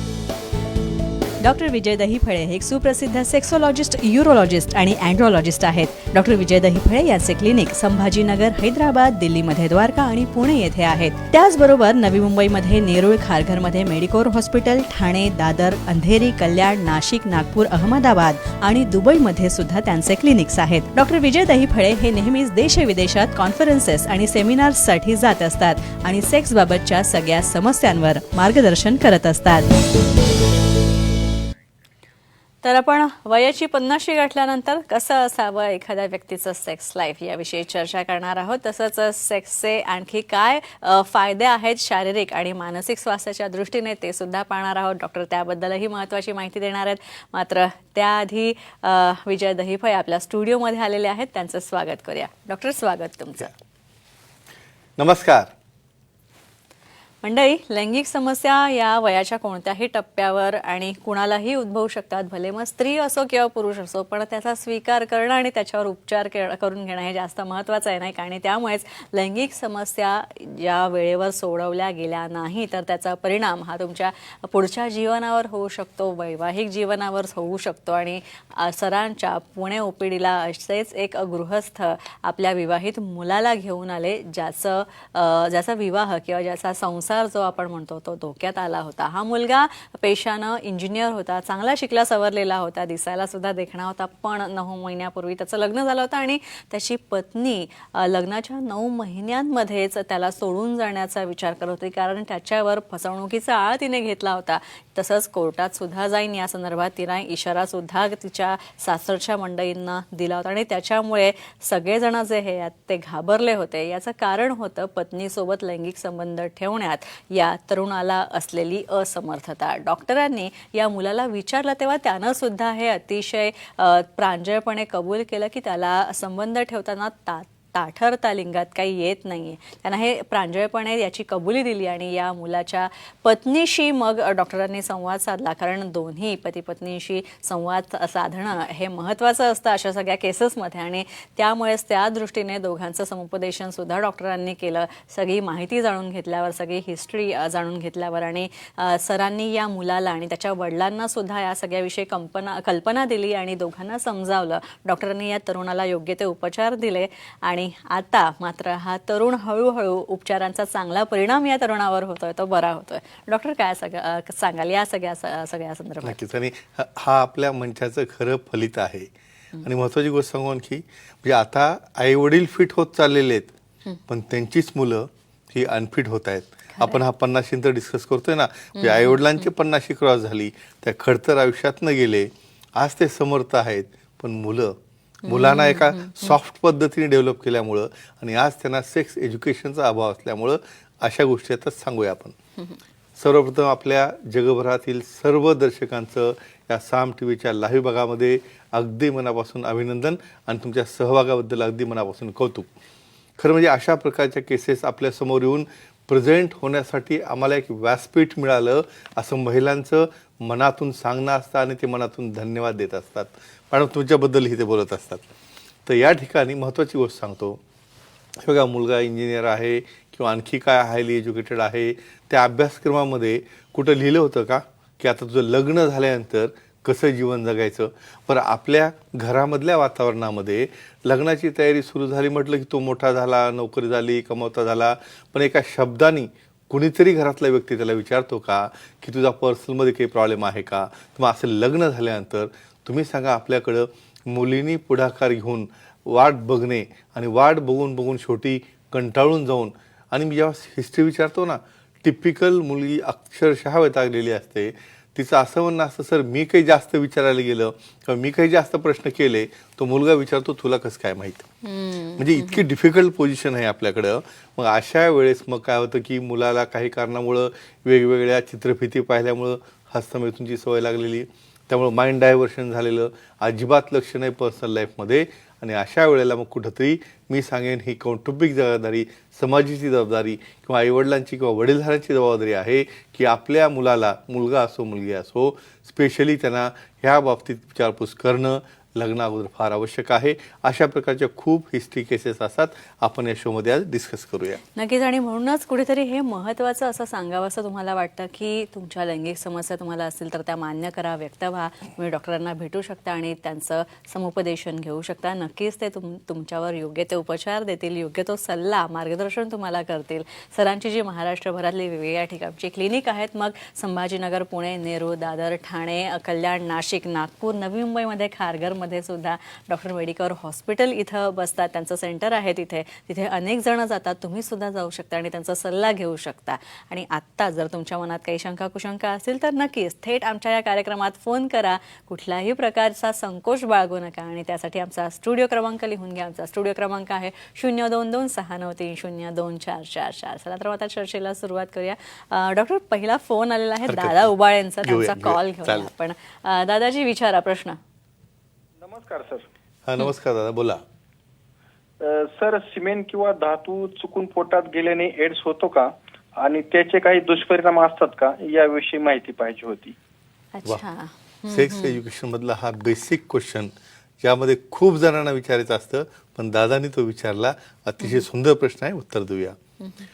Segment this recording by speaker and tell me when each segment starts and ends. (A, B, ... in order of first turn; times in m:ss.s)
0:01.4-0:29.7 A
0:32.6-0:53.5 A
0:55.0-0:55.5 B
0:57.2-2:46.2 A
2:46.0-2:49.1 B
2:49.6-2:53.5 B
2:54.1-3:12.3 B
2:58.8-2:59.4 A
3:05.3-3:06.4 A
3:13.2-3:22.7 B
3:23.4-3:35.2 B
3:35.8-3:37.6 B
3:38.4-4:21.5 B
4:21.6-4:22.6 A
4:22.2-4:54.6 B
4:54.7-5:47.8 A
5:43.9-5:44.3 B
5:44.8-5:45.9 B
5:48.8-5:49.5 C
5:49.8-5:50.8 B
5:52.0-6:00.0 C
6:00.5-6:02.0 A
6:01.5-6:09.6 B
6:09.8-6:10.0 A